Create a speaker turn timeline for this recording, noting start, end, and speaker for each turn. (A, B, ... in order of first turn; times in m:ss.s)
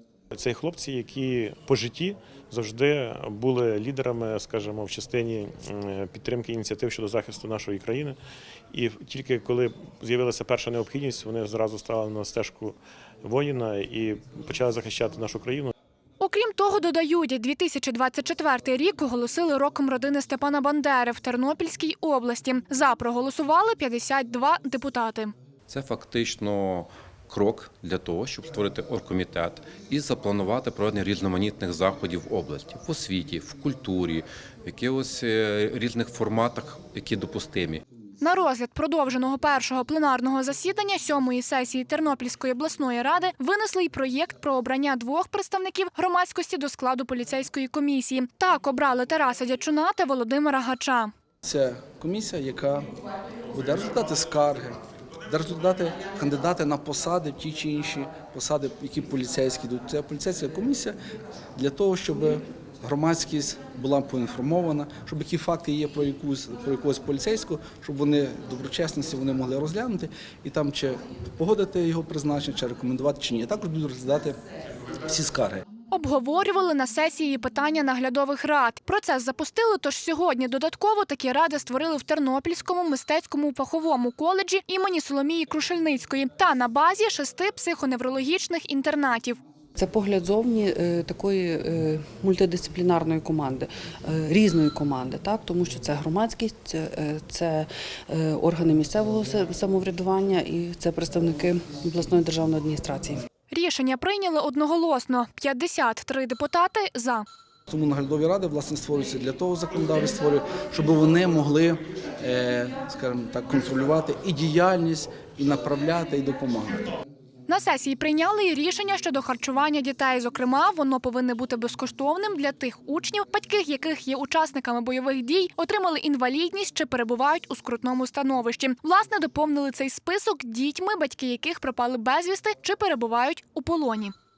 0:00.3-0:08.2 A
0:08.7-0:15.7 A
0:16.2-0:25.3 B
0:25.7-0:37.8 C
0:38.2-0:51.1 B
0:51.4-0:52.9 D
0:53.5-0:54.8 D
0:55.3-1:01.0 D
1:01.6-1:14.4 D
1:15.0-1:15.6 D
1:15.9-1:29.4 B
1:29.8-1:43.2 E
1:43.5-1:47.2 B
1:47.7-1:56.8 D
1:57.5-2:14.1 B